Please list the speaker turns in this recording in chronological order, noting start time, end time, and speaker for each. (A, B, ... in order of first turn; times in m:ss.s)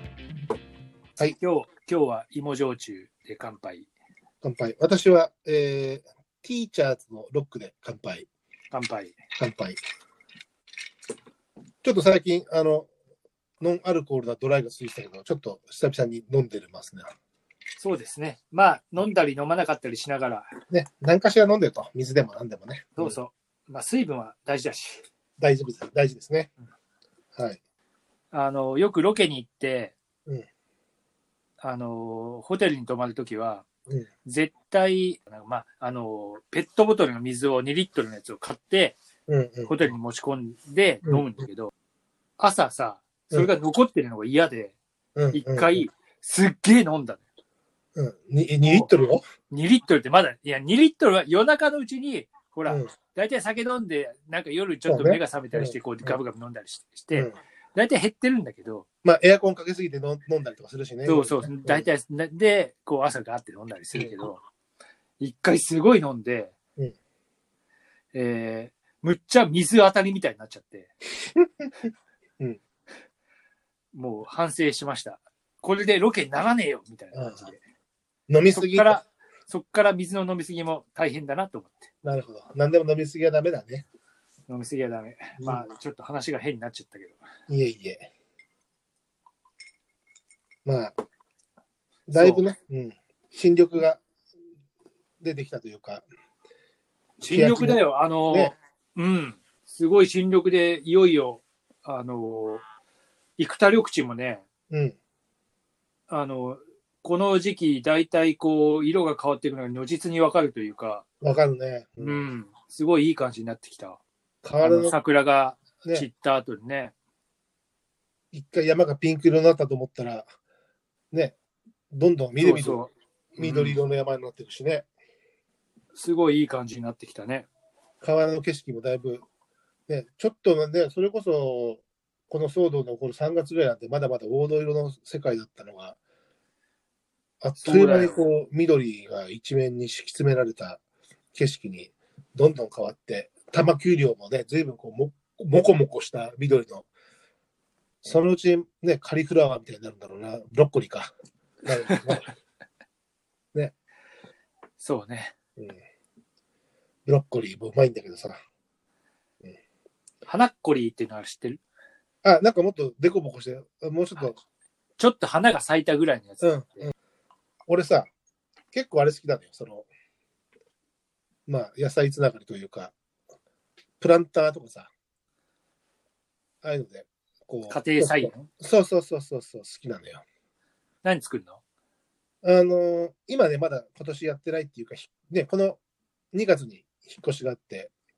0:01.4-0:03.9 A
0:04.4-0:08.3 B
0:08.7-0:09.2 A
0:09.4-0:09.8 B
0:11.8-0:12.9 B
0:13.6-0:17.1 B
0:17.8-0:20.5 A
0:20.7-0:23.2 B
0:23.0-0:25.0 A
0:25.4-0:26.5 B
0:28.3-0:29.9 A
0:31.6-0:33.6 A
0:34.2-0:39.0 A
0:39.3-0:39.9 B
0:39.7-0:41.7 A
0:42.4-0:44.7 A
0:45.2-0:45.8 B
0:45.3-0:47.2 A
0:48.0-0:49.2 B
0:48.6-0:48.9 A
0:49.5-0:58.8 A
0:52.7-0:52.9 B
0:54.9-0:56.2 B
0:59.0-1:01.9 B
1:01.0-1:04.4 A
1:03.9-1:04.2 B
1:05.2-1:06.5 A
1:08.1-1:10.9 A
1:11.4-1:11.7 B
1:13.9-1:17.6 A
1:17.1-1:17.5 B
1:18.3-1:19.0 B
1:18.5-1:21.9 A
1:22.0-1:23.8 B
1:24.5-1:27.2 A
1:25.4-1:25.7 B
1:27.5-1:28.1 B
1:30.6-1:31.0 B
1:32.1-1:34.0 B
1:32.1-1:32.4 A
1:35.2-1:36.0 B
1:37.2-1:42.6 A
1:37.3-1:38.5 B
1:43.4-1:44.4 A
1:44.7-1:45.0 B
1:46.1-1:51.0 A
1:51.2-1:52.3 B
1:52.0-1:54.0 A
1:54.4-1:55.0 B
1:54.6-1:56.9 A
1:58.3-2:00.3 B
2:01.1-2:01.4 B
2:01.9-2:02.8 B
2:02.4-2:03.8 A
2:03.4-2:04.9 B
2:05.9-2:07.5 A
2:08.0-2:09.2 B
2:09.9-2:16.0 B
2:17.4-2:20.8 B
2:17.6-2:18.2 A
2:21.3-2:26.9 B
2:28.0-2:31.1 B
2:31.6-2:32.3 B
2:34.8-2:35.3 A
2:37.0-2:38.4 B
2:40.2-2:41.6 A
2:42.2-2:44.4 B
2:45.0-2:46.9 A
2:46.4-2:46.9 B
2:47.7-2:48.1 B
2:48.7-2:49.9 B
2:51.5-2:52.9 B
2:54.0-2:54.9 B
2:56.6-3:00.2 B
2:57.7-2:58.5 A
3:01.0-3:01.6 A
3:02.4-3:05.8 B
3:06.3-3:07.9 B